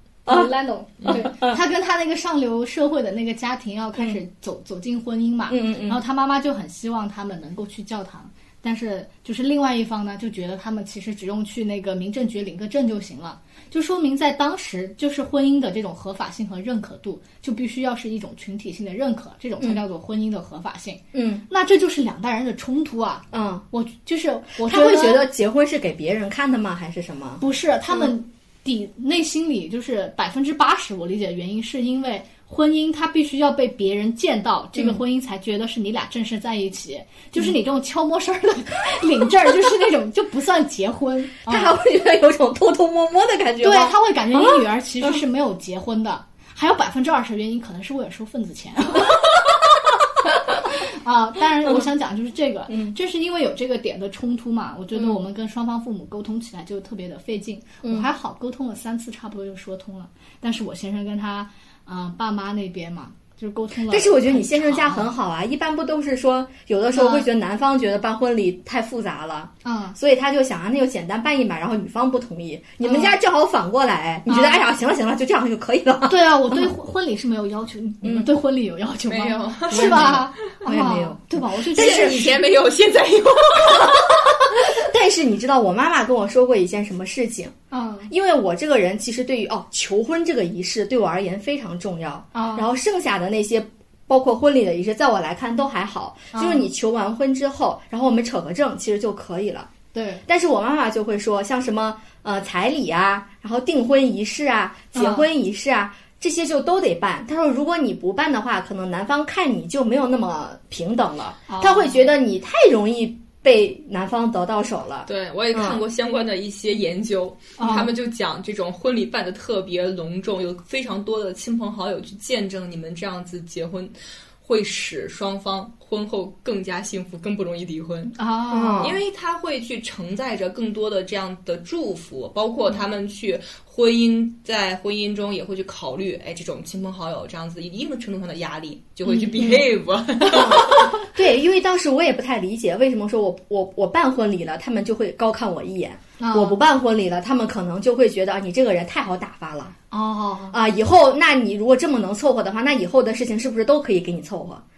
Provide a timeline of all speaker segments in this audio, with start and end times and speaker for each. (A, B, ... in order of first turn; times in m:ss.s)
0:00.3-0:25.3 A
0:01.1-0:01.6 B
0:05.5-0:06.0 B
0:21.1-0:21.4 B
0:23.3-0:23.6 B
0:24.6-0:28.1 B
0:27.4-0:41.8 A
0:41.5-0:45.2 B
0:43.6-0:49.4 A
0:50.5-1:05.1 A
0:52.7-0:53.0 B
1:03.9-1:16.7 B
1:06.9-1:07.3 A
1:09.6-1:10.0 A
1:12.8-1:13.2 A
1:14.3-1:14.7 A
1:16.1-1:22.4 A
1:18.0-1:18.3 B
1:19.1-1:20.3 C
1:19.7-1:22.3 B
1:21.7-1:24.2 C
1:23.8-1:27.6 B
1:27.7-1:28.1 A
1:28.1-1:39.7 B
1:32.3-1:32.7 A
1:36.3-1:36.7 A
1:39.9-1:40.2 A
1:40.3-1:55.8 B
1:44.9-1:45.3 A
1:51.5-1:51.9 A
1:55.1-2:08.2 C
1:57.6-1:57.9 A
2:08.2-2:08.9 A
2:08.5-2:09.0 B
2:08.8-2:21.1 C
2:19.1-2:19.6 A
2:19.4-2:19.6 B
2:20.3-2:29.8 B
2:26.2-2:26.6 A
2:29.9-2:30.6 A
2:30.5-2:34.6 B